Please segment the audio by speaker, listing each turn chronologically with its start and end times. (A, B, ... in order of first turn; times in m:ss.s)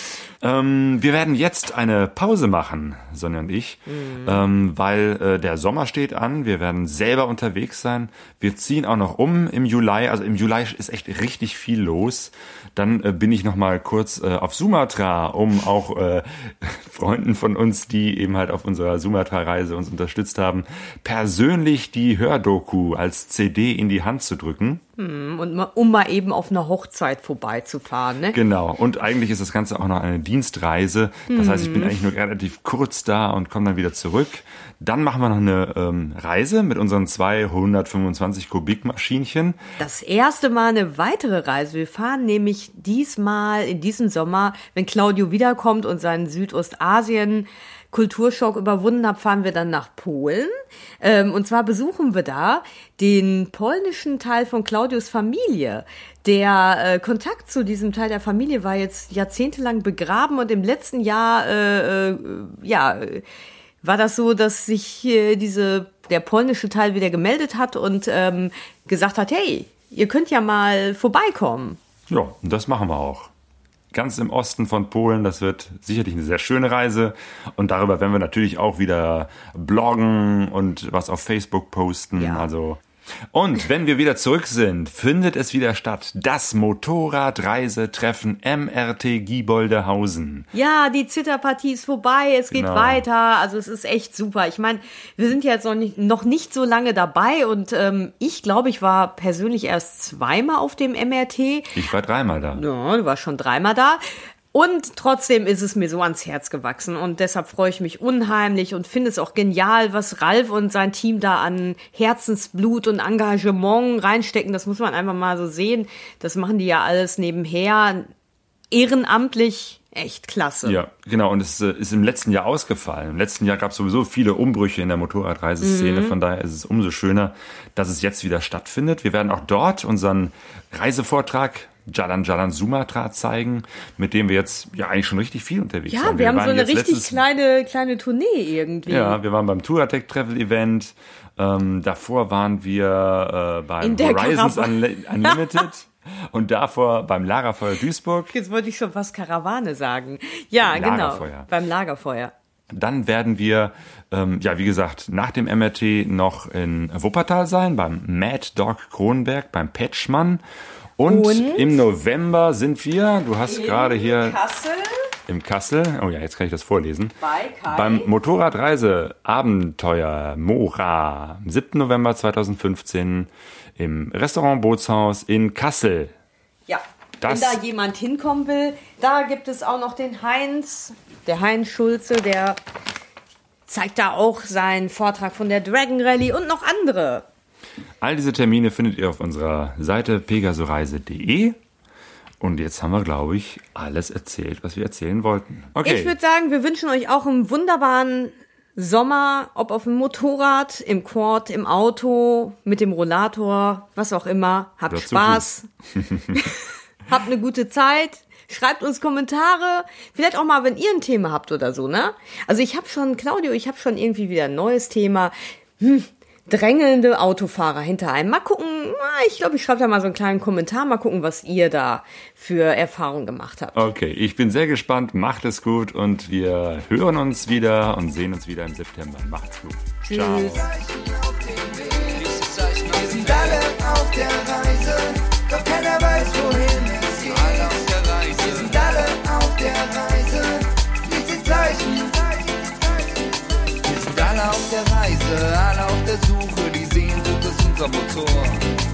0:00.4-0:24.8 A
0:03.9-0:04.5 B
0:25.0-0:28.4 B
0:28.3-0:39.6 A
0:31.3-0:32.0 B
0:39.8-1:03.2 B
1:03.8-1:11.8 B
1:12.1-1:13.3 A
1:13.9-1:22.8 A
1:22.2-1:22.5 B
1:23.3-1:30.4 A
1:30.5-1:41.8 B
1:32.5-1:33.0 A
1:41.7-1:42.6 A
1:42.5-1:58.1 B
1:58.7-2:00.8 B
2:00.6-2:17.2 A
2:05.6-2:06.1 B
2:15.9-2:19.2 B
2:18.9-2:28.3 A
2:23.8-2:25.6 B
2:28.3-2:32.3 B
2:30.6-2:31.5 A
2:32.7-2:40.4 A
2:41.0-2:44.4 A
2:41.0-2:41.8 B
2:43.4-2:45.1 B
2:45.3-2:47.2 A
2:47.2-2:48.1 B
2:47.7-2:56.1 A
2:56.7-3:02.6 B
2:57.2-2:57.6 A
3:03.7-3:07.2 B
3:08.0-3:11.6 A
3:12.4-3:16.1 A
3:15.8-3:25.7 B
3:24.9-3:26.4 A
3:26.3-3:43.8 B
3:43.7-3:50.7 A
3:50.0-4:08.6 C